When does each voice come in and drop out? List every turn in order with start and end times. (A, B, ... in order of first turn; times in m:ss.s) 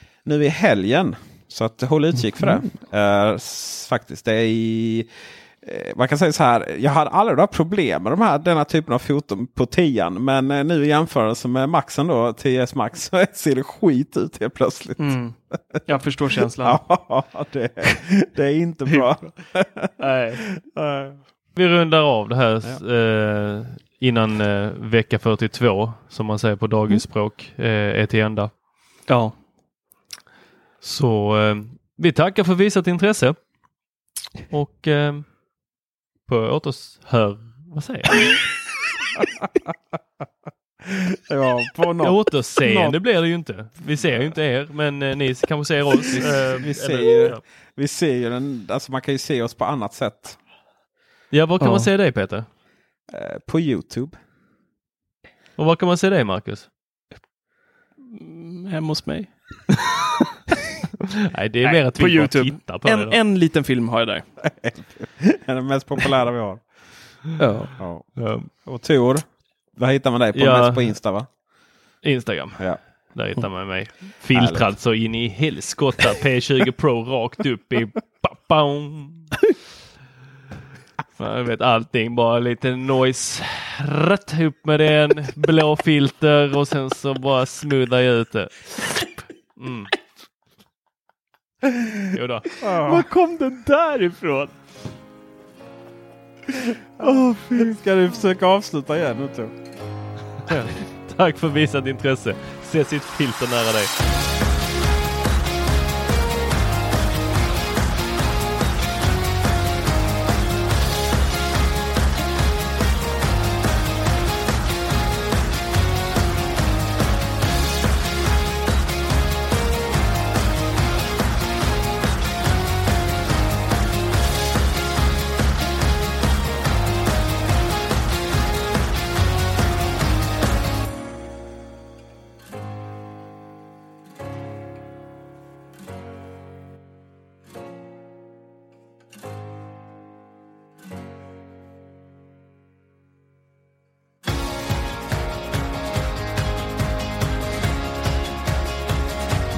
0:00.2-0:05.1 A
0:05.6-0:15.2 A
0:15.0-0:16.8 B
0:16.6-0:19.9 A
0:20.0-0:20.4 C
0:20.6-0:21.2 A
0:21.6-0:28.5 C
0:29.1-0:29.4 B
0:30.8-0:33.4 C
0:34.5-0:35.3 C
0:36.3-0:38.4 C
0:39.2-0:39.7 A
0:40.8-0:43.0 A
0:42.0-0:47.4 C
0:46.0-0:50.4 A
0:51.3-0:52.5 C
0:51.6-0:51.9 B
0:53.1-0:54.2 A
0:55.6-0:56.7 C
0:58.1-0:59.3 B
1:01.3-1:03.2 C
1:01.6-1:04.3 B
1:04.4-1:06.6 A
1:07.4-1:07.7 B
1:07.4-1:08.5 C
1:07.8-1:11.3 A
1:10.4-1:11.0 C
1:12.0-1:12.6 C
1:13.2-1:19.4 C
1:14.3-1:14.7 A
1:21.2-1:29.9 C
1:32.1-1:32.5 C
1:32.6-1:33.1 A
1:32.8-1:34.5 B
1:37.0-1:37.8 B
1:37.0-1:39.6 A
1:40.5-1:43.9 C